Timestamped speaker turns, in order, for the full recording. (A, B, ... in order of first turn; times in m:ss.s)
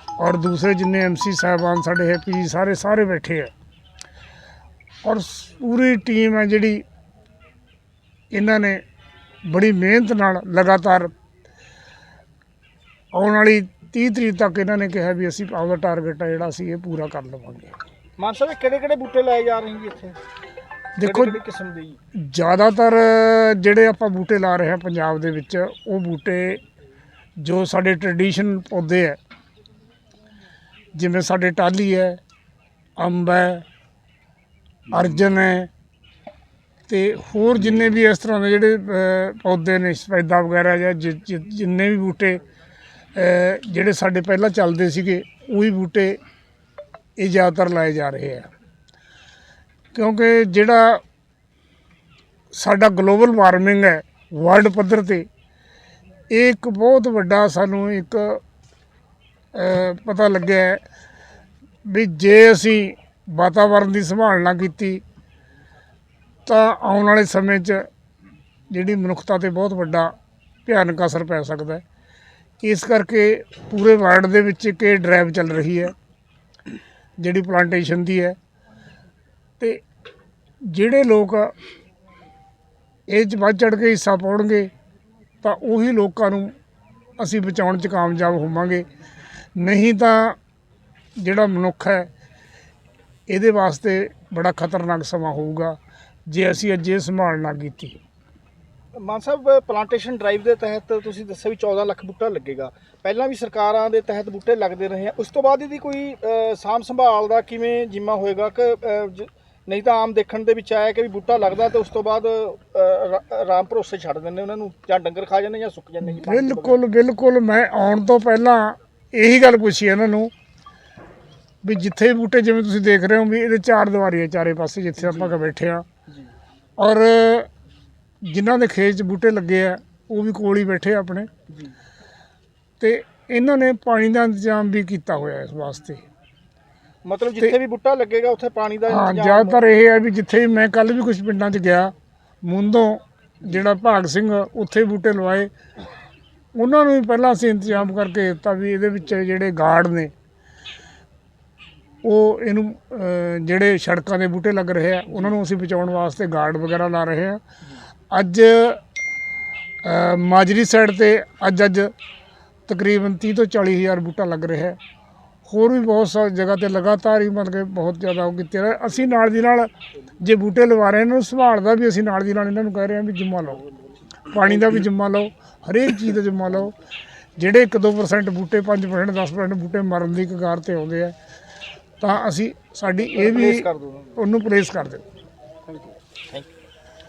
0:00.2-0:03.5 A
0:05.0-0:06.8 A
0:08.3-0:08.8 A
0:09.5-0:11.1 A
0:13.1-0:17.7 A
0:18.2-0:20.2 B
0:21.0-0:21.4 A
0:21.0-0:22.0 B
0:22.3-0:26.6 A
0:27.4-0:29.2 A
0:30.9-0:32.2 A
0:33.0-0:33.6 A
0:34.9-0:35.7 A
0:36.9-0:42.4 A
0:43.2-0:46.2 A
0:47.2-0:48.5 A
0:49.9-0:51.0 A
0:52.5-0:55.3 A
0:56.3-0:58.4 A
0:59.5-1:00.8 A
1:01.9-1:05.0 A
1:06.4-1:07.8 A
1:08.7-1:10.1 A
1:10.6-1:11.8 A
1:12.6-1:15.9 A
1:17.2-1:18.4 A
1:20.7-1:21.5 A
1:23.1-1:24.7 A
1:25.4-1:26.5 A
1:27.2-1:28.8 A
1:29.6-1:30.4 A
1:31.2-1:32.1 A
1:33.3-1:35.8 A
1:36.3-1:38.0 A
1:39.0-1:56.8 B
1:56.0-2:00.3 A
2:01.6-2:05.8 A
2:05.0-2:05.3 B
2:06.8-2:07.5 A
2:08.3-2:11.3 A
2:12.8-2:16.0 A
2:17.0-2:19.6 B
2:18.9-2:21.9 A
2:22.4-2:25.5 A
2:26.5-2:30.1 A
2:32.0-2:37.4 A
2:38.1-2:38.8 A
2:39.8-2:41.9 A
2:42.7-2:44.8 A
2:45.4-2:49.7 A
2:50.2-2:53.6 A
2:54.3-2:56.7 A
2:57.4-3:01.1 A
3:02.0-3:05.0 A
3:03.2-3:04.1 B
3:05.7-3:06.5 B